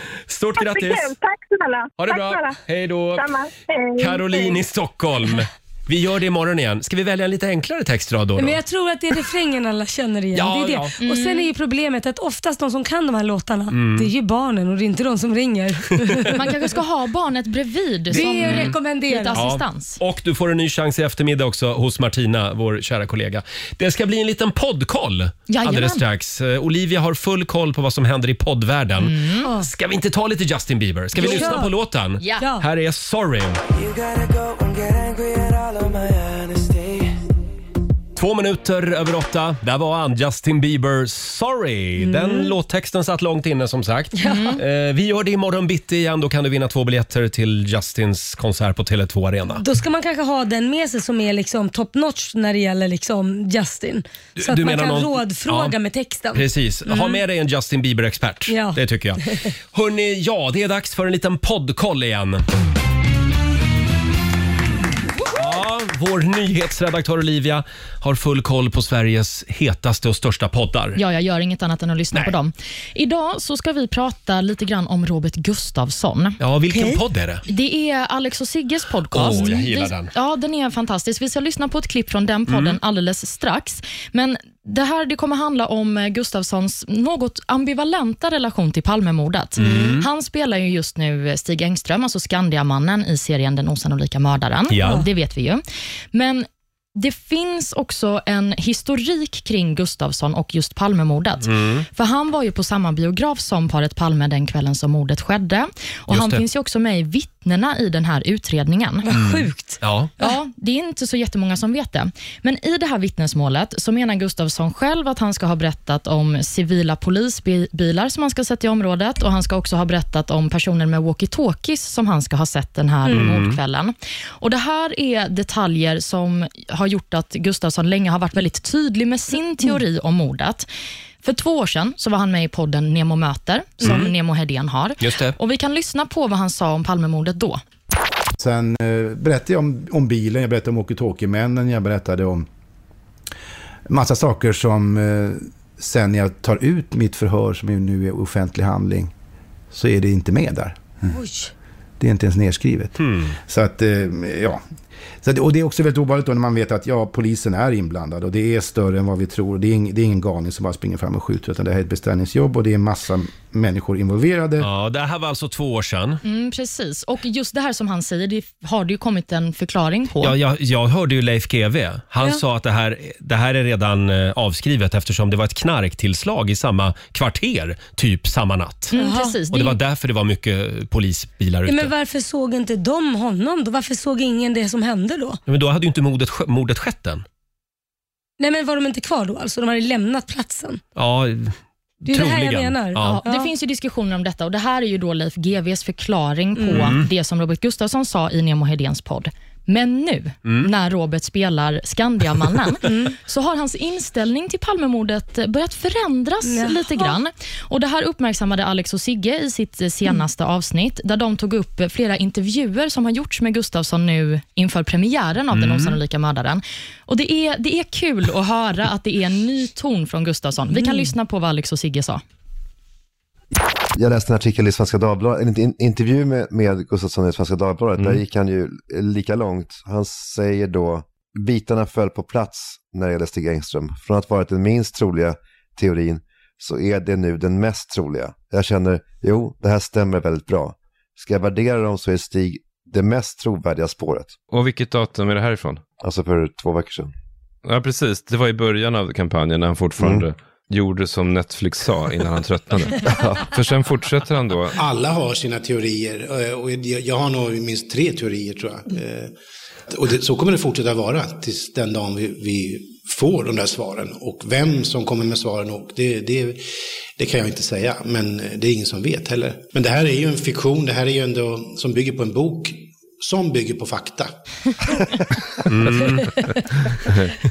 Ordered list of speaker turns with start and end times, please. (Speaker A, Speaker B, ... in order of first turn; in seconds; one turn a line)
Speaker A: 0.2-1.1
Speaker B: 0.6-2.6
Speaker A: 2.0-3.2
Speaker B: 3.1-4.6
Speaker A: 4.0-8.6
Speaker C: 8.4-16.4
Speaker A: 10.3-10.9
Speaker D: 11.0-11.5
Speaker A: 13.7-14.1
Speaker D: 16.3-20.0
Speaker C: 18.1-19.4
Speaker A: 18.1-18.8
Speaker A: 19.3-33.6
Speaker D: 25.5-26.0
Speaker D: 29.0-29.5
Speaker C: 29.4-29.7
Speaker C: 31.2-31.7
Speaker D: 31.2-31.5
Speaker D: 32.2-32.4
Speaker C: 32.4-32.6
Speaker E: 33.7-37.2
Speaker A: 38.1-49.6
Speaker C: 42.0-42.5
Speaker C: 44.1-44.6
Speaker D: 44.2-44.6
Speaker C: 49.6-57.2
Speaker A: 54.4-55.7
Speaker A: 56.3-62.5
Speaker C: 58.5-59.4
Speaker A: 65.3-71.0
Speaker D: 71.0-76.4
Speaker A: 76.4-77.4
Speaker C: 76.7-77.0
Speaker D: 77.5-95.6
Speaker A: 79.1-80.1
Speaker A: 82.5-82.8
Speaker A: 89.6-90.1
Speaker C: 89.6-89.9
Speaker A: 94.7-95.0
Speaker D: 96.1-109.0
Speaker A: 101.4-101.8
Speaker A: 106.1-106.4
Speaker C: 109.0-110.3
Speaker A: 109.1-110.1
Speaker D: 110.2-130.7
Speaker C: 123.0-123.3
Speaker A: 123.1-123.6
Speaker D: 131.2-137.6
Speaker A: 133.8-134.1
Speaker A: 135.0-135.4
Speaker F: 138.4-142.5
Speaker F: 143.9-149.1
Speaker F: 149.7-150.8
Speaker C: 151.1-151.5
Speaker F: 152.0-154.6
Speaker A: 153.0-153.3
Speaker F: 155.2-164.7
Speaker A: 164.6-166.2
Speaker D: 166.2-170.3
Speaker A: 170.2-178.9
Speaker D: 178.9-179.8
Speaker C: 178.9-179.3
Speaker A: 179.5-181.9
Speaker C: 181.7-185.4
Speaker A: 185.5-187.2
Speaker C: 188.4-190.8
Speaker A: 190.9-193.2
Speaker C: 192.0-193.5
Speaker D: 193.0-222.2
Speaker C: 196.6-196.9
Speaker A: 196.7-197.1
Speaker C: 206.4-207.1
Speaker A: 215.5-216.0
Speaker C: 220.8-221.1
Speaker G: 223.9-244.4
Speaker H: 244.5-245.8
Speaker G: 246.0-247.1
Speaker H: 247.6-254.8
Speaker G: 250.0-250.2
Speaker F: 254.8-259.3
Speaker F: 259.9-266.6
Speaker F: 267.2-274.3
Speaker A: 275.6-276.4